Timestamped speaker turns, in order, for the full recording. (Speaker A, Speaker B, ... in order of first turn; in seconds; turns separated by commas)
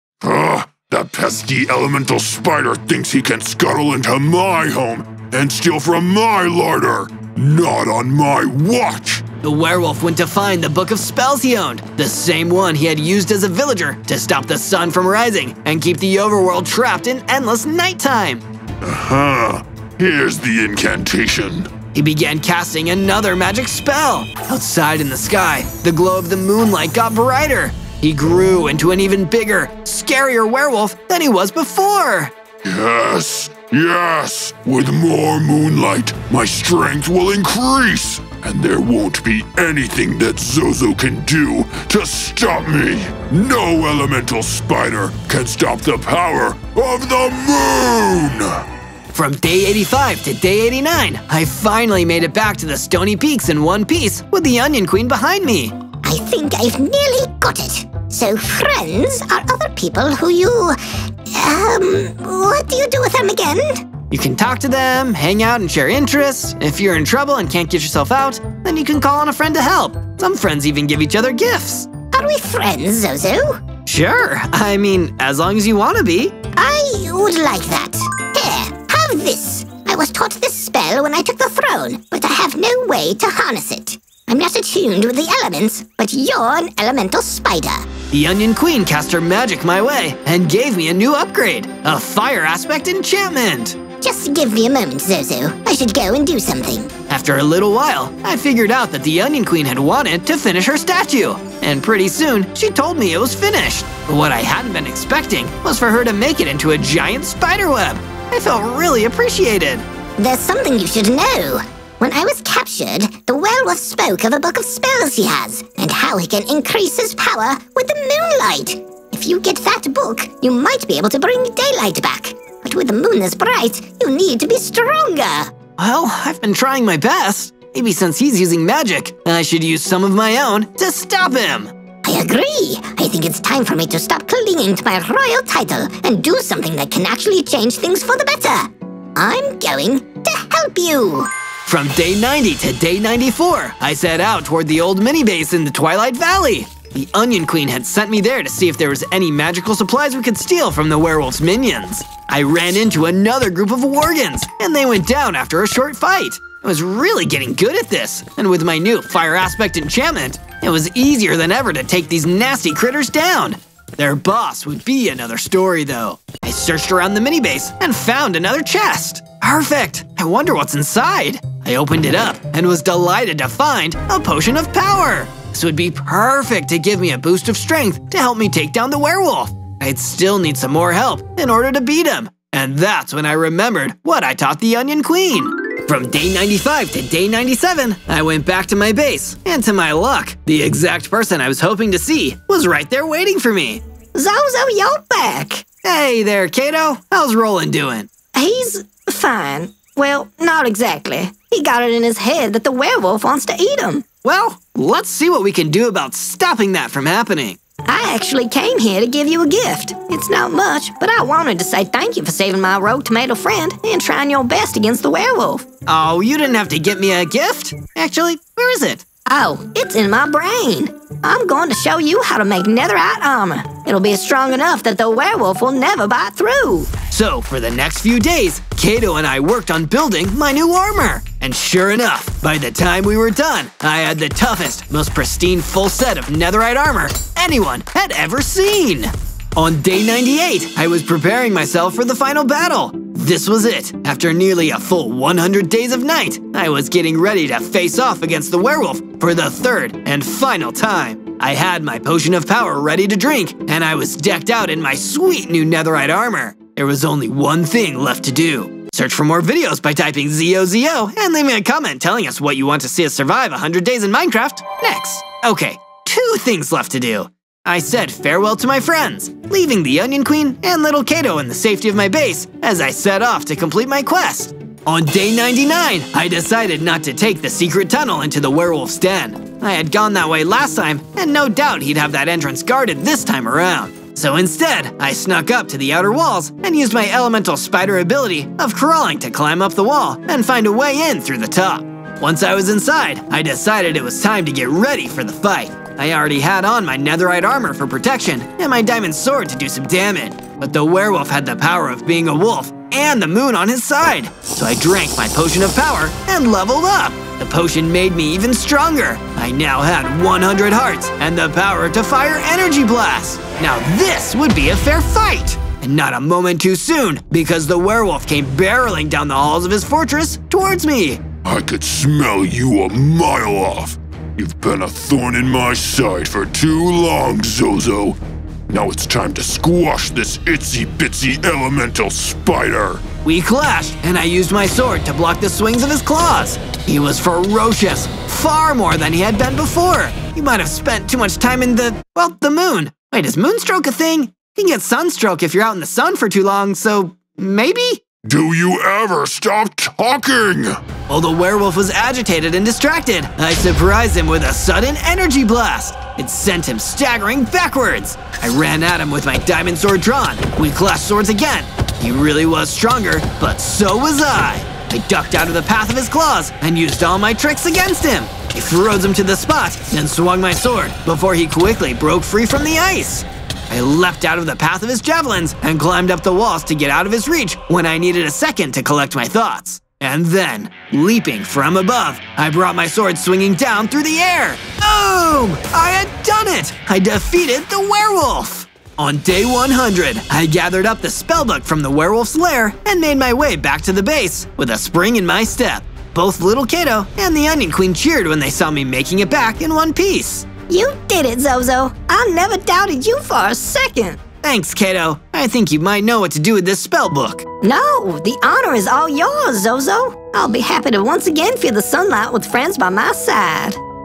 Speaker A: 0.2-9.2, Speaker B: 9.4-18.4, Speaker A: 18.8-21.7, Speaker B: 21.9-32.3, Speaker A: 32.6-48.6, Speaker B: 49.1-55.8, Speaker C: 56.0-63.9, Speaker B: 64.1-71.9, Speaker C: 72.1-73.6, Speaker B: 73.9-76.4, Speaker C: 76.5-87.9, Speaker B: 88.1-93.8, Speaker C: 94.0-96.9, Speaker B: 97.1-109.8, Speaker C: 110.2-125.5, Speaker B: 125.8-131.7, Speaker C: 132.1-141.3, Speaker B: 141.7-193.8, Speaker D: 194.1-195.7, Speaker B: 195.8-198.1, Speaker D: 198.3-204.1, Speaker B: 204.2-207.6, Speaker D: 207.9-215.7, Speaker B: 215.9-219.1, Speaker D: 219.3-226.9, Speaker B: 227.1-321.2, Speaker A: 321.4-328.2, Speaker A: 328.7-333.0, Speaker B: 333.2-348.0, Speaker A: 348.2-350.8, Speaker B: 351.1-400.5, Speaker D: 400.7-404.2, Speaker B: 404.4-407.5, Speaker D: 407.6-413.8